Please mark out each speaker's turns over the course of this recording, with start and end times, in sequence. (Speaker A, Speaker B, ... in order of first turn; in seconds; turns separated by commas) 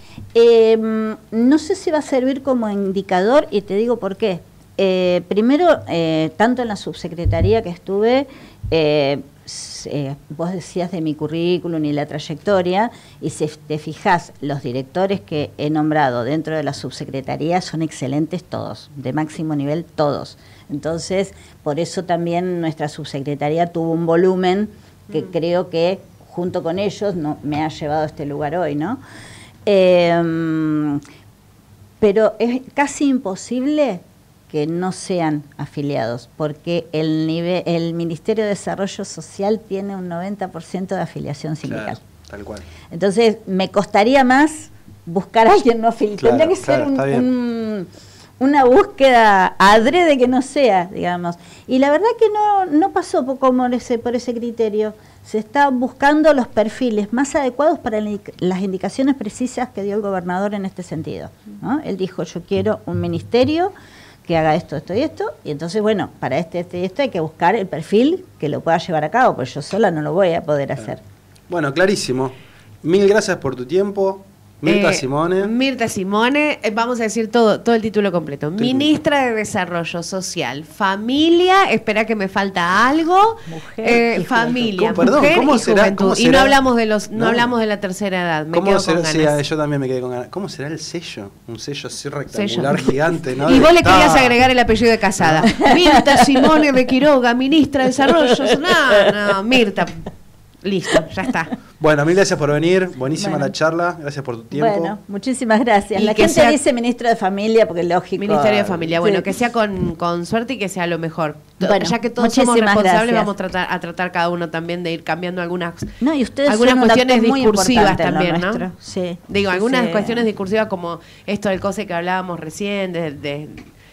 Speaker A: 0.3-29.0, Speaker A: 29.7-31.0, Speaker A: 32.0-42.0, Speaker B: 41.6-42.6, Speaker A: 42.9-47.9, Speaker B: 46.2-47.3, Speaker A: 48.4-63.7, Speaker A: 64.2-71.0, Speaker B: 71.5-75.5, Speaker C: 74.7-89.4, Speaker B: 78.6-78.9, Speaker A: 83.5-85.2, Speaker B: 84.9-86.6, Speaker B: 87.1-87.5, Speaker B: 88.5-94.4, Speaker C: 92.3-100.1, Speaker B: 95.2-95.5, Speaker A: 95.5-96.5, Speaker A: 98.4-99.0, Speaker C: 100.6-101.5, Speaker B: 101.8-105.0, Speaker A: 103.2-103.5, Speaker A: 104.5-109.3, Speaker C: 106.0-106.6, Speaker C: 108.2-118.7, Speaker A: 111.6-113.3, Speaker A: 116.0-120.3, Speaker C: 119.3-123.7